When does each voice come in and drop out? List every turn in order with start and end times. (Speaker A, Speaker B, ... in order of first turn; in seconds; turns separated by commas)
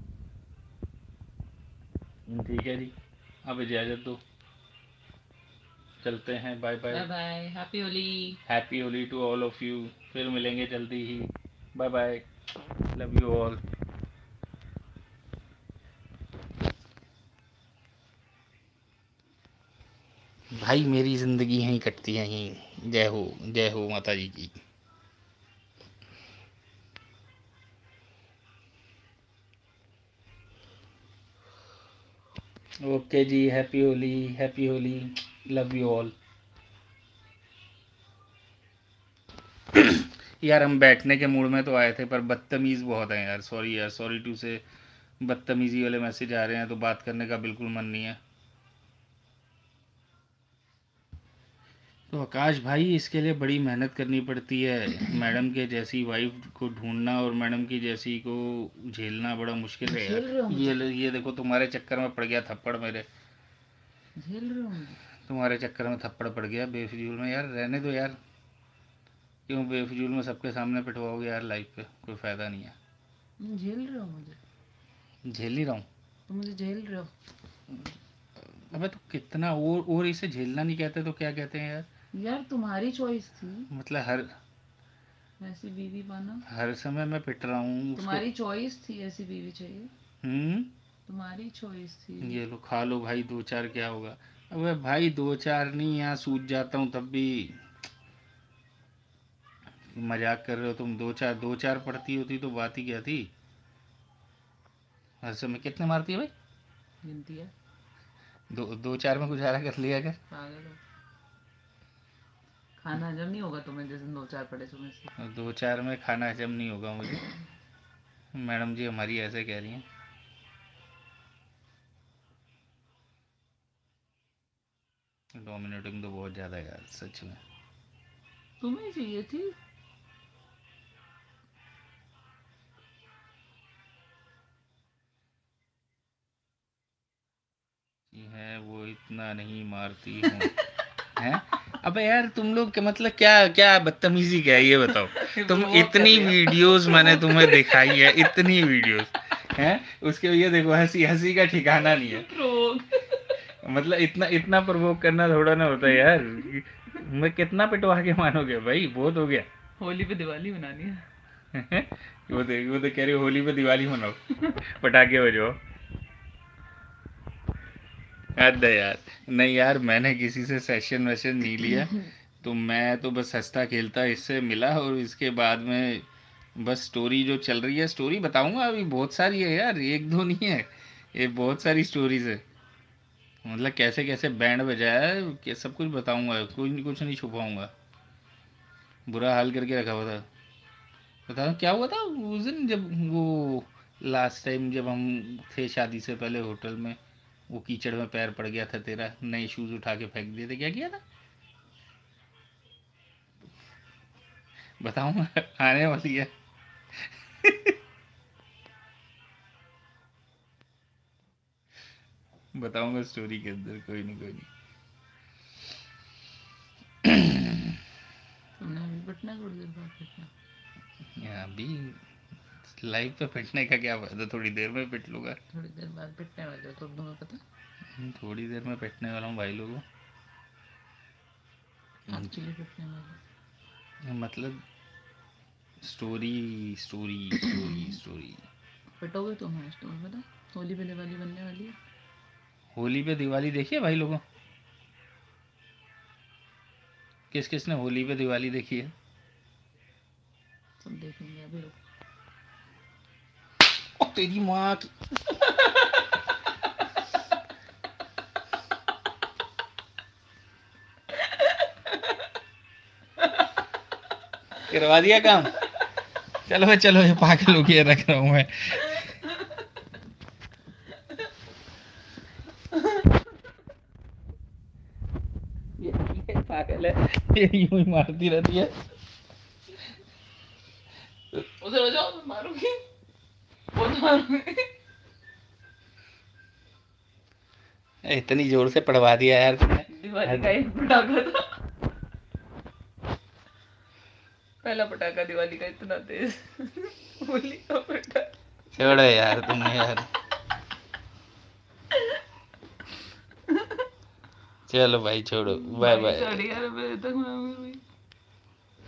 Speaker A: 2.3-4.2, Speaker A: 6.0-7.1, Speaker B: 6.9-8.4, Speaker A: 8.4-12.3, Speaker A: 12.9-13.6, Speaker A: 20.5-24.6, Speaker A: 32.8-36.1, Speaker A: 39.7-44.6, Speaker A: 45.2-48.2, Speaker A: 52.1-63.1, Speaker B: 59.8-60.8, Speaker B: 64.2-65.0, Speaker A: 65.2-68.2, Speaker A: 69.5-72.8, Speaker B: 73.4-74.4, Speaker A: 75.2-75.8, Speaker B: 76.3-77.1, Speaker A: 77.7-81.9, Speaker B: 82.1-83.7, Speaker A: 83.7-84.3, Speaker B: 85.4-86.5, Speaker A: 86.5-88.2, Speaker B: 87.9-89.9, Speaker A: 90.2-90.7, Speaker B: 91.1-92.4, Speaker A: 92.2-97.6, Speaker A: 99.9-103.3, Speaker A: 105.2-106.3, Speaker B: 107.0-107.5, Speaker A: 108.5-110.2, Speaker B: 110.3-110.8, Speaker B: 112.8-115.1, Speaker A: 115.2-117.2, Speaker A: 118.3-119.9, Speaker A: 125.3-127.4, Speaker B: 128.6-129.6, Speaker A: 138.1-140.5, Speaker A: 141.2-152.3, Speaker B: 145.1-148.2, Speaker B: 152.0-153.4, Speaker A: 153.6-159.5, Speaker B: 159.8-161.0, Speaker A: 161.5-165.6, Speaker A: 168.3-182.4, Speaker A: 183.4-187.7, Speaker A: 189.1-190.3, Speaker A: 191.2-201.0, Speaker A: 204.8-206.3, Speaker A: 206.9-207.8, Speaker A: 212.5-214.5, Speaker A: 217.0-217.8, Speaker B: 218.6-220.3, Speaker A: 221.1-222.0, Speaker A: 222.6-225.4, Speaker B: 225.5-227.4, Speaker A: 227.9-229.8, Speaker A: 232.1-232.3, Speaker B: 232.1-233.2, Speaker A: 234.0-234.6, Speaker A: 235.8-238.4, Speaker B: 239.0-241.8, Speaker A: 242.7-244.2, Speaker A: 247.3-248.9, Speaker B: 250.8-251.8, Speaker A: 254.0-255.5, Speaker A: 264.6-265.6, Speaker A: 266.5-269.2, Speaker B: 272.7-273.0, Speaker A: 275.8-278.8, Speaker B: 281.6-282.8, Speaker B: 283.7-284.7, Speaker A: 288.0-290.5, Speaker B: 289.9-291.6, Speaker B: 294.6-299.0, Speaker A: 298.7-300.1, Speaker B: 303.5-303.8, Speaker A: 304.7-306.5, Speaker B: 305.4-307.8